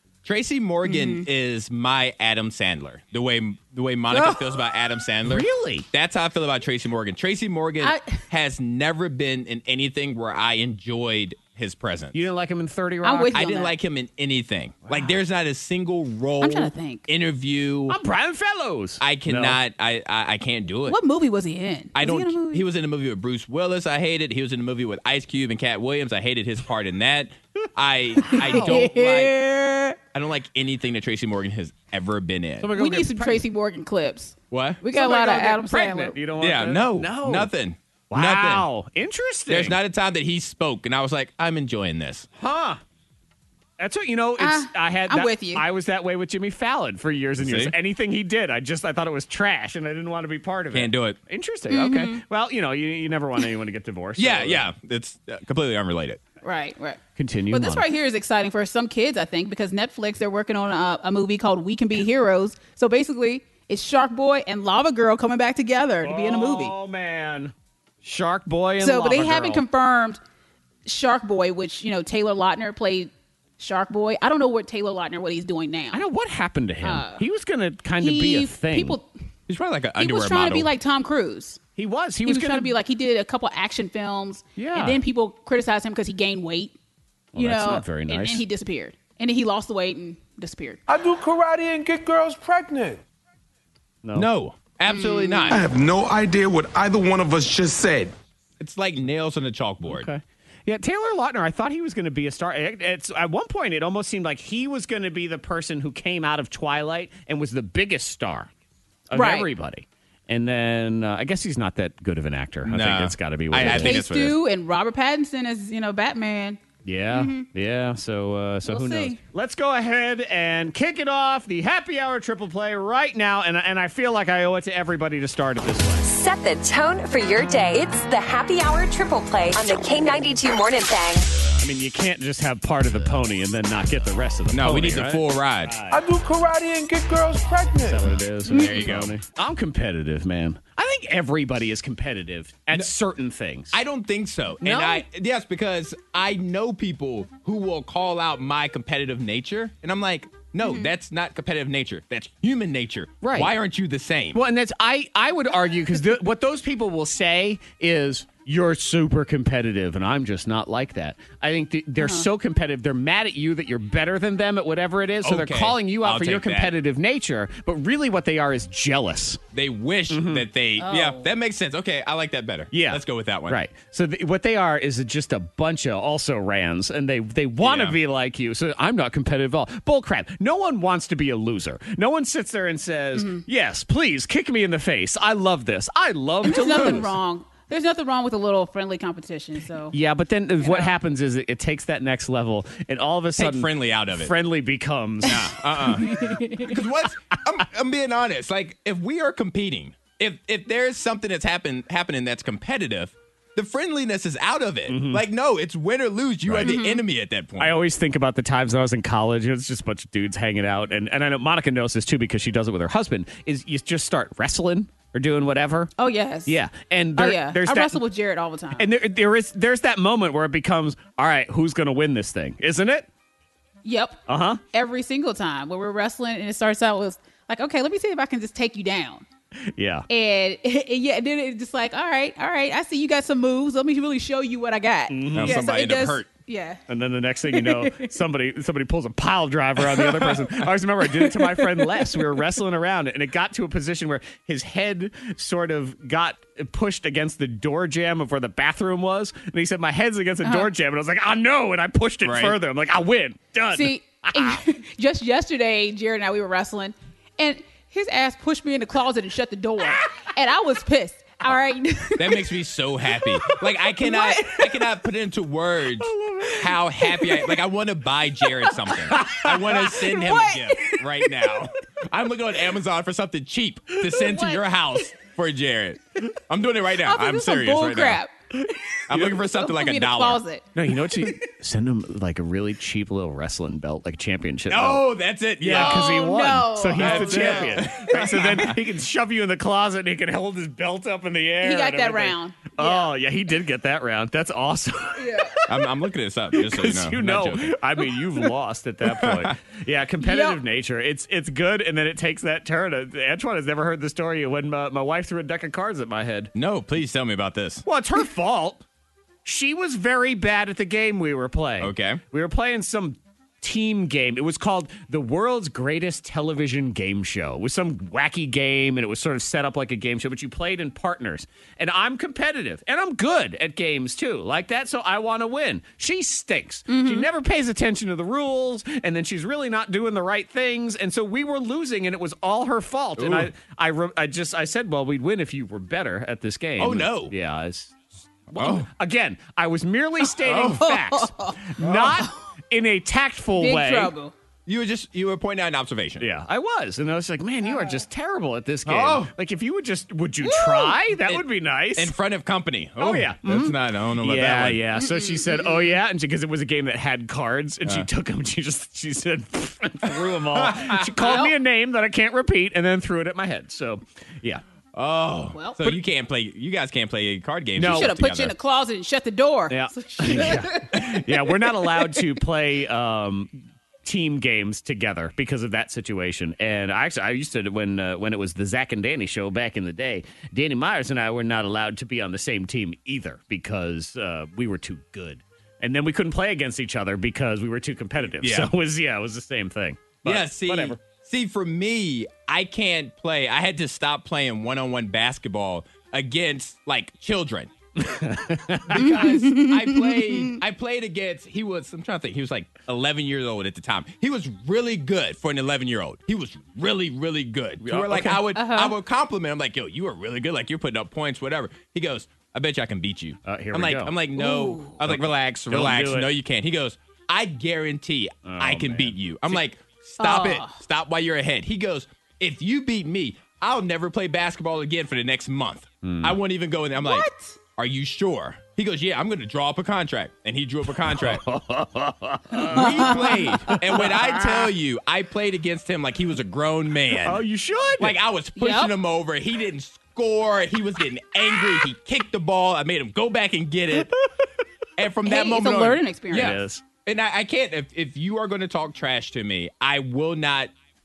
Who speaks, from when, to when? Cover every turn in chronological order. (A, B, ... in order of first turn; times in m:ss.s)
0:00.2-0:12.3 A
0:00.8-0:01.2 B
0:05.2-0:05.8 C
0:07.8-0:08.2 B
0:12.1-0:13.4 C
0:13.0-0:13.7 B
0:13.3-0:18.0 A
0:14.9-0:15.1 C
0:16.4-0:17.0 B
0:17.9-0:19.6 C
0:19.0-0:21.0 A
0:20.9-0:22.6 B
0:21.9-0:29.3 A
0:28.2-0:28.7 C
0:28.2-0:30.0 B
0:30.1-0:32.7 A
0:32.6-0:33.4 C
0:32.7-0:36.2 B
0:34.5-0:34.8 A
0:34.9-0:37.5 C
0:36.4-0:38.7 A
0:38.1-0:39.8 C
0:39.5-0:42.3 A
0:42.4-0:42.8 C
0:43.8-0:54.6 C
0:44.4-0:45.6 B
0:47.4-0:47.7 A
0:50.7-0:51.2 A
0:51.7-0:52.2 B
0:54.2-0:56.2 A
0:56.4-1:06.7 B
0:57.2-0:57.8 C
1:06.0-1:09.6 C
1:08.8-1:10.2 B
1:10.8-1:16.0 B
1:15.9-1:19.0 C
1:16.8-1:17.2 B
1:18.0-1:19.1 B
1:19.5-1:20.7 A
1:20.0-1:21.6 B
1:21.8-1:22.7 C
1:22.2-1:26.7 B
1:24.6-1:25.0 C
1:27.3-1:28.4 C
1:27.3-1:30.8 B
1:30.9-1:33.0 D
1:34.1-1:35.6 A
1:34.9-1:35.6 B
1:35.5-1:38.1 D
1:38.6-1:40.1 A
1:39.8-1:48.5 C
1:49.1-1:54.0 C
1:49.1-1:49.5 B
1:52.6-1:54.4 A
1:53.6-1:56.6 B
1:56.8-2:06.1 C
1:57.1-1:57.4 B
1:58.6-1:59.2 B
2:06.0-2:11.3 E
2:11.6-2:16.0 C
2:14.5-2:15.8 A
2:15.9-2:18.0 D
2:17.8-2:23.8 C
2:18.5-2:19.1 A
2:18.5-2:18.8 B
2:23.7-2:34.4 A
2:24.6-2:25.0 B
2:30.6-2:30.9 B
2:33.2-2:33.5 C
2:34.3-2:49.4 C
2:42.0-2:42.3 B
2:45.2-2:46.7 A
2:49.5-2:53.6 A
2:50.1-2:50.4 C
2:50.8-2:51.2 B
2:52.7-3:07.1 C
2:57.6-2:58.0 A
3:03.1-3:03.4 B
3:06.4-3:09.9 B
3:09.9-3:15.5 C
3:10.6-3:10.9 B
3:13.4-3:14.3 A
3:15.2-3:27.8 A
3:16.0-3:16.7 B
3:24.9-3:25.2 C
3:26.5-3:26.7 C
3:26.6-3:27.0 B
3:27.6-3:35.9 C
3:36.0-3:36.6 B
3:36.4-3:38.0 C
3:37.2-3:38.9 B
3:38.8-3:43.1 C
3:43.8-3:49.2 B
3:44.3-3:44.6 C
3:49.8-3:50.0 C
3:50.1-3:56.8 B
3:55.1-3:55.6 C
3:55.4-3:56.2 A
3:56.9-4:14.6 C
3:57.5-3:58.1 B
4:01.7-4:02.0 B
4:10.4-4:10.7 B
4:12.2-4:12.6 A
4:13.7-4:22.5 B
4:22.2-4:38.2 A
4:24.0-4:24.8 B
4:26.0-4:26.6 C
4:28.8-4:29.2 B
4:29.1-4:29.6 C
4:29.8-4:31.0 B
4:34.0-4:34.6 B
4:37.0-4:38.3 B
4:39.1-4:40.4 A
4:39.1-4:39.4 C
4:39.6-4:40.6 B
4:40.7-4:45.0 C
4:44.7-4:46.2 A
4:45.6-4:55.8 C
4:45.6-4:48.6 B
4:47.0-4:48.8 A
4:51.6-4:53.1 B
4:55.2-4:55.6 B
4:55.7-4:57.8 A
4:56.5-5:06.5 C
4:59.1-4:59.5 A
5:00.2-5:00.6 B
5:06.5-5:07.8 A
5:07.8-5:08.8 C
5:09.4-5:38.0 C
5:11.8-5:12.2 A
5:26.9-5:27.3 B
5:33.2-5:33.5 A
5:36.8-5:37.3 A
5:38.5-5:44.1 C
5:38.5-5:38.9 A
5:40.4-5:42.3 B
5:40.5-5:40.9 A
5:41.8-5:42.2 A
5:43.6-5:44.3 B
5:44.6-5:46.3 A
5:46.2-5:52.1 C
5:47.6-5:48.0 B
5:48.8-5:49.3 A
5:50.4-5:51.0 B
5:52.0-5:54.8 A
5:53.0-6:04.6 C
5:55.0-5:56.0 B
6:00.5-6:01.3 A
6:01.2-6:01.6 B
6:04.9-6:08.5 A
6:05.5-6:05.8 B
6:07.8-6:08.1 C
6:07.9-6:11.2 B
6:09.7-6:31.0 C
6:28.4-6:28.7 A
6:30.2-6:37.7 A
6:38.0-6:39.2 C
6:38.9-7:11.4 A
6:38.9-6:40.6 B
6:47.8-6:48.4 C
6:48.5-6:49.0 B
6:53.4-6:54.2 C
6:54.4-6:55.0 B
6:55.0-6:56.3 C
6:58.4-6:59.1 C
7:00.2-7:00.8 B
7:06.0-7:06.4 C
7:07.0-7:07.5 B
7:11.1-7:14.7 C
7:12.7-7:13.8 B
7:12.7-7:17.4 A
7:17.2-7:18.2 C
7:18.0-7:24.1 A
7:18.6-7:18.9 B
7:25.0-7:30.7 A
7:25.2-7:26.6 B
7:26.3-7:26.8 C